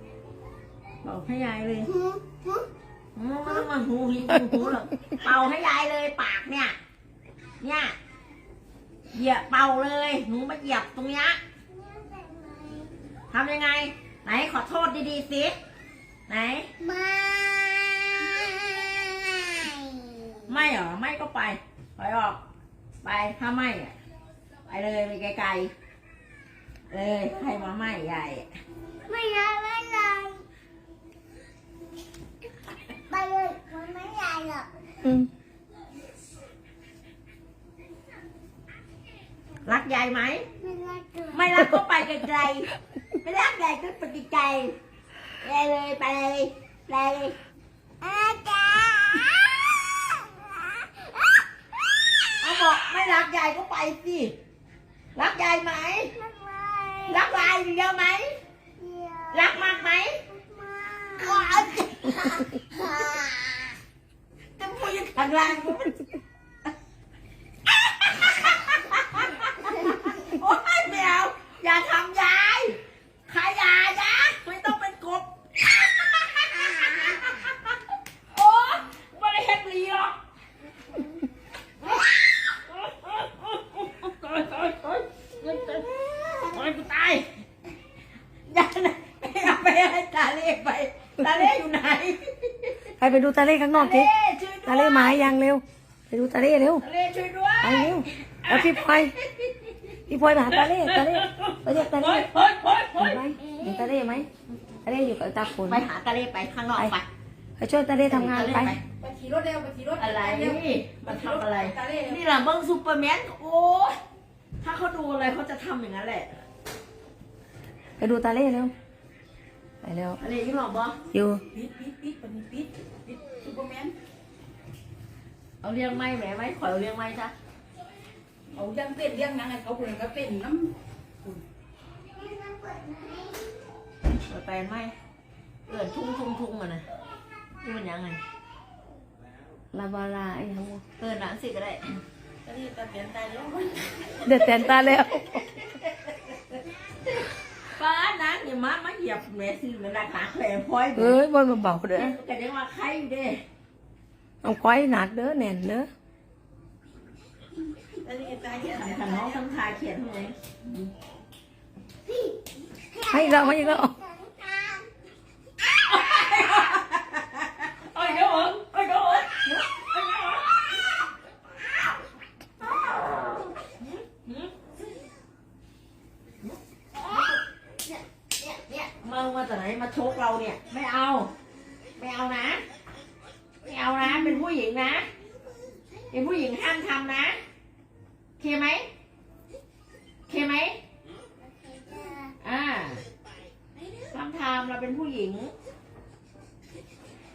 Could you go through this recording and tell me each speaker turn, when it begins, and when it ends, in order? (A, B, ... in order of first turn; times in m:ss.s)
0:01.0-0:01.9 A
0:01.8-0:02.7 B
0:03.1-0:06.8 A
0:07.6-0:08.0 A
0:09.1-0:11.4 A
0:11.7-0:12.9 B
0:13.3-0:15.6 A
0:16.3-0:16.7 A
0:16.8-0:20.5 B
0:20.5-0:22.4 A
0:23.0-0:23.9 A
0:24.7-0:25.7 A
0:26.9-0:28.5 A
0:29.0-0:30.4 B
0:33.1-0:34.7 B
0:35.0-0:35.3 C
0:39.6-0:40.4 A
0:40.6-0:41.6 B
0:41.3-0:42.7 A
0:43.2-0:44.7 A
0:45.4-0:47.4 A
0:48.0-0:51.4 B
0:52.4-0:54.3 A
0:55.1-0:56.1 A
0:56.1-0:57.6 B
0:57.1-0:58.4 A
0:58.8-1:03.8 B
0:59.3-1:00.2 A
1:01.2-1:02.4 A
1:04.6-1:05.2 B
1:04.6-1:06.0 A
1:07.8-1:17.7 A
1:18.3-1:20.2 A
1:21.8-1:27.3 A
1:28.5-1:32.9 A
1:31.2-1:31.5 C
1:33.0-1:34.1 C
1:33.7-1:35.3 A
1:34.6-1:36.8 C
1:36.8-1:43.8 A
1:37.6-1:39.1 C
1:40.1-1:42.3 C
1:43.0-1:44.3 C
1:44.8-1:45.9 C
1:45.4-1:47.1 A
1:47.6-1:48.8 C
1:48.1-1:48.8 A
1:49.0-1:52.2 D
1:50.0-1:53.9 A
1:54.6-1:56.4 A
1:58.0-1:58.7 C
1:59.8-2:00.2 C
2:00.2-2:01.0 A
2:01.1-2:01.4 C
2:01.5-2:03.9 D
2:05.6-2:07.3 A
2:08.5-2:11.4 D
2:12.2-2:13.6 B
2:14.2-2:14.9 A
2:15.7-2:16.8 A
2:17.6-2:18.2 A
2:19.7-2:20.8 C
2:21.0-2:22.0 A
2:22.4-2:24.4 D
2:24.2-2:25.5 C
2:27.7-2:31.2 A
2:31.0-2:32.2 C
2:32.0-2:33.4 A
2:34.4-2:35.9 C
2:38.0-2:39.4 D
2:38.5-2:40.3 A
2:42.1-2:42.4 B
2:42.9-2:44.9 B
2:43.1-2:43.9 C
2:45.7-2:50.9 A
2:47.9-2:48.5 B
2:53.6-2:54.5 A
2:56.4-3:01.3 A
3:02.0-3:02.6 A
3:03.6-3:05.1 A
3:04.0-3:04.4 B
3:06.1-3:07.4 A
3:08.4-3:08.9 A
3:10.3-3:10.8 A
3:11.4-3:12.4 B
3:12.4-3:13.0 A
3:14.1-3:15.5 A